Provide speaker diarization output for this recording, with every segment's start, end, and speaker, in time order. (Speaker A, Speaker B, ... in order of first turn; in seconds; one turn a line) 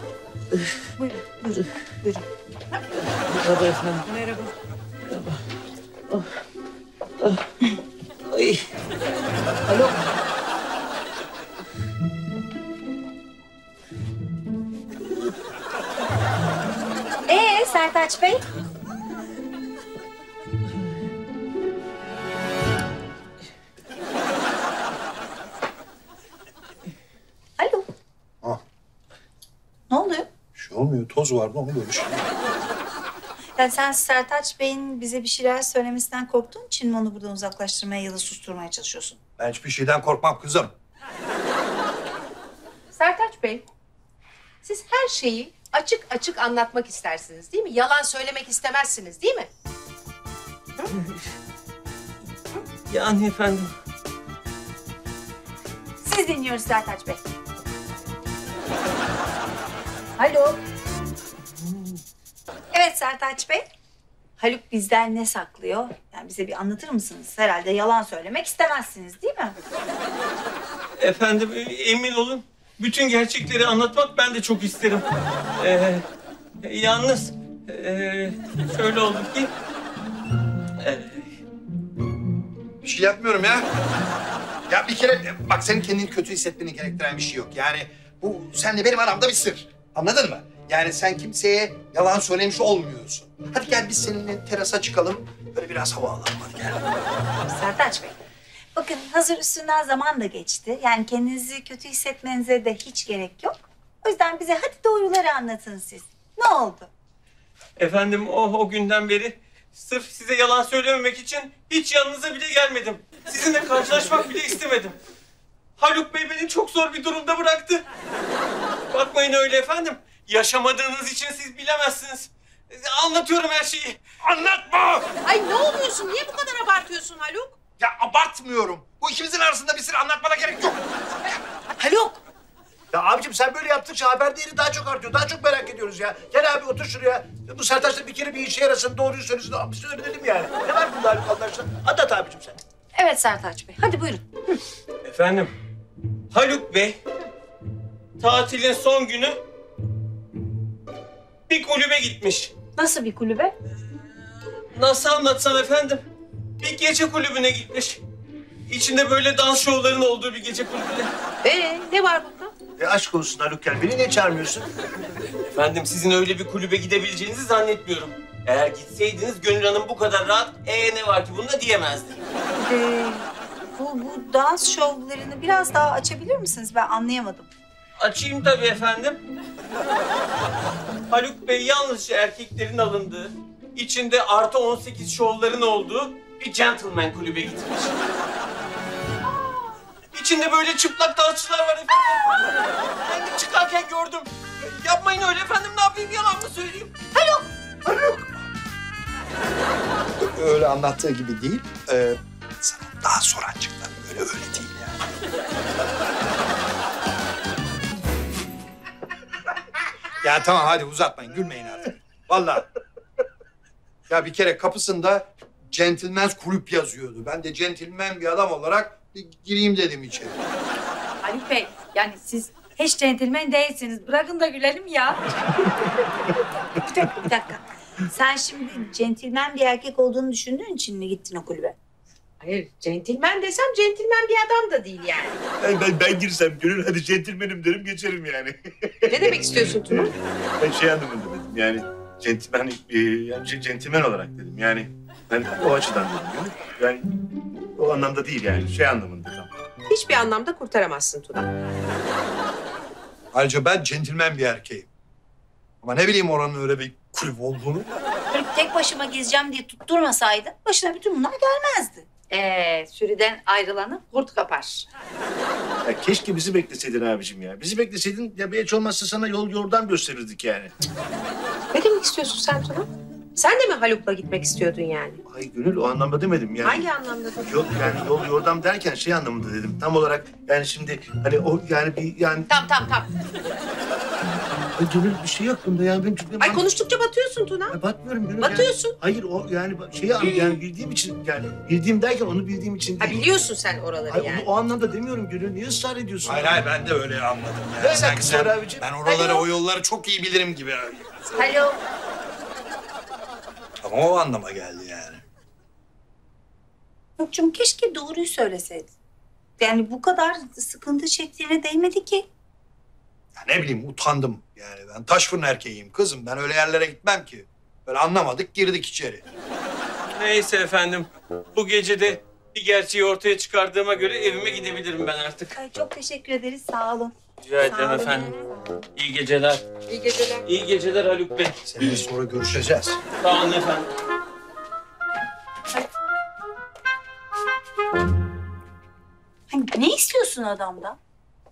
Speaker A: 1.0-1.4
Speaker B: 3.2-4.0
Speaker B: 5.1-5.4
Speaker B: 8.3-8.6
Speaker A: 9.7-10.0
Speaker A: 17.3-18.4
Speaker A: 27.6-27.9
Speaker A: 29.9-30.3
Speaker C: 30.5-32.5
Speaker A: 33.6-39.2
Speaker C: 39.4-40.7
Speaker D: 42.9-43.7
Speaker D: 44.6-49.5
Speaker B: 52.9-53.7
Speaker A: 56.0-57.2
Speaker A: 60.2-60.6
Speaker A: 62.7-63.6
Speaker A: 64.4-69.5
Speaker B: 71.0-76.0
Speaker B: 76.6-79.5
Speaker B: 80.8-81.2
Speaker C: 82.8-83.7
Speaker C: 84.7-96.8
Speaker A: 97.4-98.2
Speaker A: 98.8-106.9
Speaker B: 107.8-114.9
Speaker B: 115.8-117.8
Speaker B: 118.9-124.0
Speaker C: 124.2-125.1
Speaker D: 125.2-127.5
Speaker C: 127.8-131.4
Speaker D: 131.8-132.2
Speaker E: 132.9-142.6
Speaker A: 143.0-144.2
Speaker B: 145.0-145.5
Speaker B: 146.3-147.0
Speaker B: 148.2-149.4
Speaker B: 151.5-152.5
Speaker A: 152.8-153.5
Speaker B: 154.7-156.0
Speaker B: 156.6-158.0
Speaker B: 158.7-161.1
Speaker D: 161.4-162.6
Speaker E: 162.8-164.7
Speaker B: 165.5-172.2
Speaker A: 172.5-177.5
Speaker B: 178.0-179.2
Speaker B: 181.1-188.0
Speaker B: 190.1-196.9
Speaker A: 197.1-197.4
Speaker C: 197.8-198.3
Speaker C: 200.2-204.9
Speaker C: 210.2-212.7
Speaker C: 214.1-220.4
Speaker A: 221.2-231.8
Speaker D: 232.4-235.4
Speaker E: 235.6-247.1
Speaker D: 239.1-240.2
Speaker E: 247.8-249.5
Speaker D: 249.9-251.5
Speaker C: 253.3-254.9
Speaker C: 255.8-257.9
Speaker A: 258.3-264.8
Speaker E: 265.8-270.7
Speaker D: 271.7-275.2
Speaker E: 275.2-276.9
Speaker D: 276.6-278.0
Speaker E: 277.4-282.5
Speaker D: 282.5-283.1
Speaker E: 284.8-286.6
Speaker D: 286.4-287.8
Speaker E: 287.7-293.3
Speaker D: 288.4-288.9
Speaker D: 293.0-294.5
Speaker E: 294.1-296.6
Speaker C: 296.2-301.6
Speaker E: 297.8-298.9
Speaker D: 299.0-299.4
Speaker A: 301.4-301.8
Speaker C: 303.8-305.2
Speaker A: 307.2-308.9
Speaker A: 309.6-312.2
Speaker C: 313.4-319.2
Speaker B: 320.0-325.5
Speaker A: 325.5-328.8
Speaker B: 327.4-328.3
Speaker B: 328.9-329.6
Speaker D: 329.9-330.4
Speaker B: 330.4-332.0
Speaker C: 331.7-333.0
Speaker B: 333.2-333.9
Speaker A: 339.5-341.0